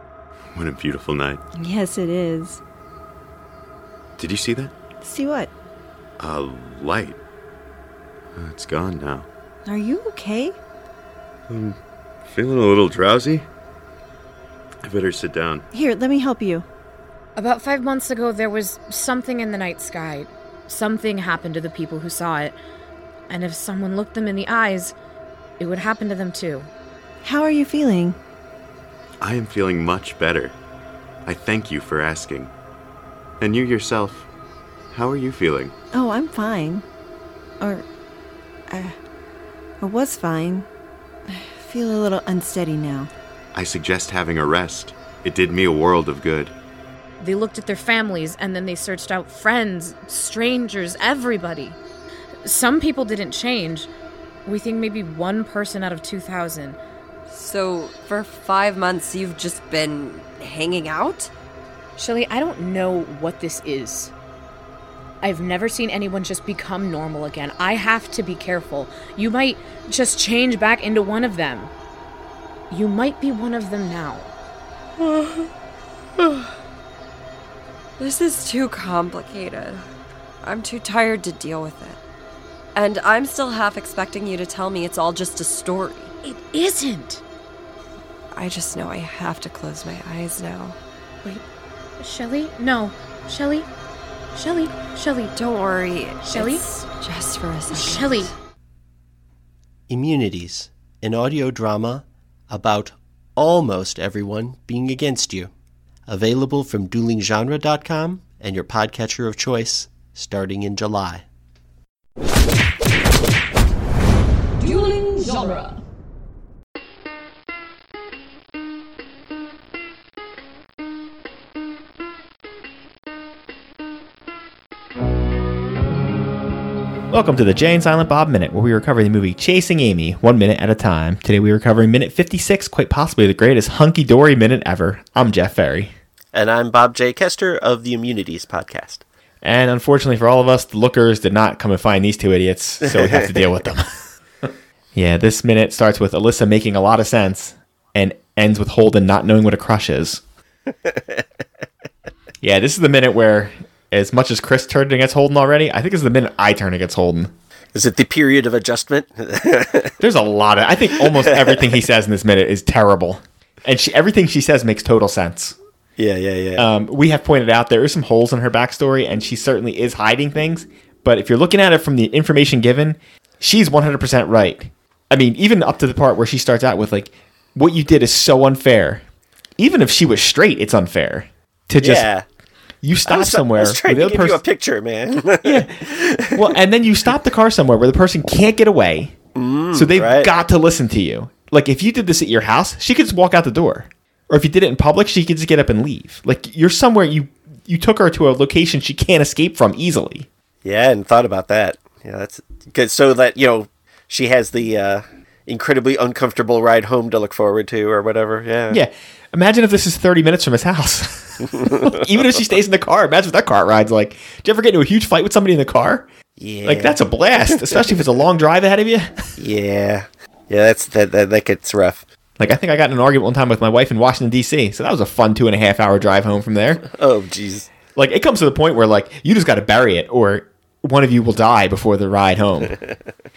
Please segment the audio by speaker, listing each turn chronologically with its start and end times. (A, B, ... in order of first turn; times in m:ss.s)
0:00.5-0:01.4 A
0:01.6-0:02.6 B
0:04.2-0:04.7 A
0:05.0-0:05.5 B
0:06.2-0:07.2 A
0:08.4-0:09.3 A
0:09.7-0:10.6 B
0:11.5-0:13.5 A
0:14.8-0:15.6 A
0:15.7-0:16.6 B
0:17.4-0:22.6 C
0:23.3-0:25.0 C
0:25.6-0:26.7 C
0:27.2-0:28.2 B
0:29.2-0:30.6 A
0:31.3-0:32.5 A
0:33.4-0:34.3 A
0:34.9-0:35.7 A
0:35.9-0:36.8 B
0:37.6-0:37.8 B
0:38.7-0:39.0 B
0:39.8-0:40.7 B
0:41.3-0:43.1 B
0:43.5-0:46.5 A
0:47.2-0:51.8 C
0:52.4-0:53.9 C
0:54.5-0:56.8 C
0:57.3-1:01.3 D
1:02.0-1:04.1 C
1:05.2-1:11.7 C
1:12.7-1:14.3 C
1:15.0-1:15.5 D
1:16.2-1:16.5 D
1:18.0-1:19.8 D
1:20.4-1:22.0 D
1:22.8-1:26.1 D
1:26.2-1:27.2 C
1:28.4-1:30.8 D
1:32.0-1:33.7 C
1:34.3-1:35.3 C
1:35.4-1:38.3 D
1:36.2-1:36.6 C
1:37.7-1:38.3 C
1:39.9-1:45.5 E
1:46.1-1:51.2 E
2:07.1-2:15.9 F
2:16.3-2:19.0 E
2:19.4-2:23.9 F
2:22.8-2:23.3 E
2:25.0-2:30.2 F
2:30.9-2:31.2 E
2:32.4-2:37.3 F
2:37.7-2:39.9 E
2:40.0-2:45.6 F
2:41.0-2:41.7 E
2:46.0-2:46.7 E
2:46.6-2:59.0 F
2:59.6-3:02.1 F
3:01.8-3:02.2 E
3:02.8-3:04.4 F
3:03.1-3:06.5 E
3:05.4-3:09.2 F
3:09.4-3:10.3 E
3:09.7-3:20.3 F
3:20.6-3:28.8 E
3:28.7-3:36.1 F
3:31.5-3:32.0 E
3:36.4-3:37.0 E
3:36.6-3:39.4 F
3:37.5-3:37.8 E
3:39.4-3:42.0 E
3:42.4-3:46.8 F
3:46.9-3:47.7 E
3:48.0-3:52.8 F